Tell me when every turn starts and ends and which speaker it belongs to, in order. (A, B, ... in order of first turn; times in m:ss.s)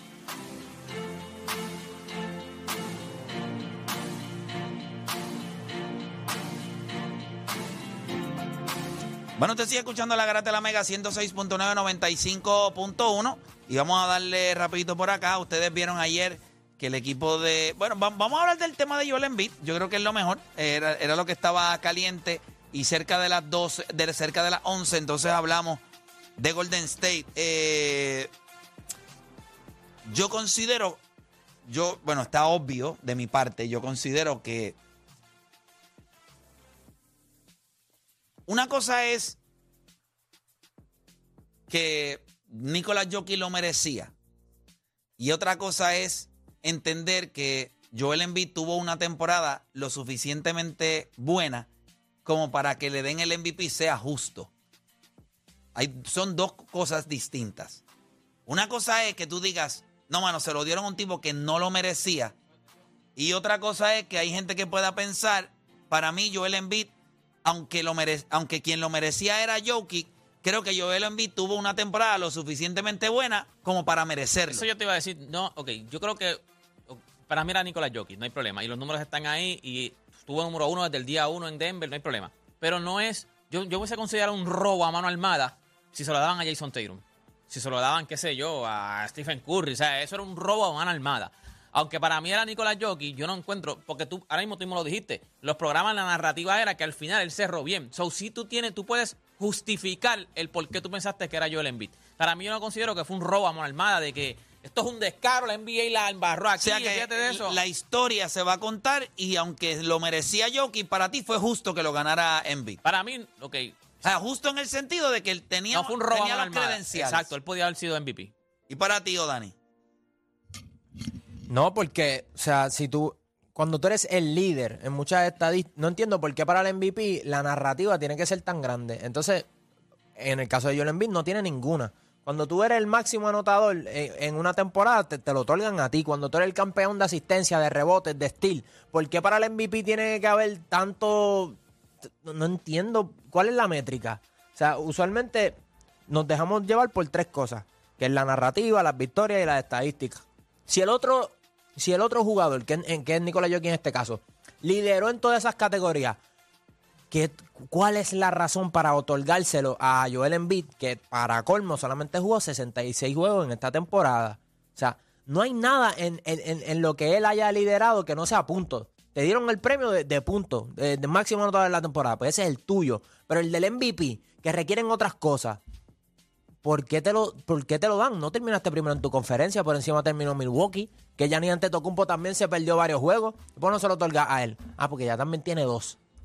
0:09.4-0:25.8 A
0:26.4-0:28.3 A
0:30.1-0:31.0 A
0:31.7-0:34.8 A
0:38.5-0:39.4 A
0:41.7-0:44.1 A
0:45.2-0:51.7 A
0:52.2-0:54.5 A
0:55.8-0:57.8 A
0:58.5-1:02.4 A
1:03.2-1:06.9 A
1:07.4-1:14.7 A
1:14.5-1:47.6 B
1:46.6-1:52.8 A
1:52.8-1:54.1 B
1:54.0-1:57.3 A
1:55.7-1:58.3 B
1:58.7-1:59.5 A
2:01.5-2:09.5 C
2:10.2-2:21.6 C
2:22.2-2:36.2 C
2:37.1-2:55.6 C
2:56.6-3:06.0 C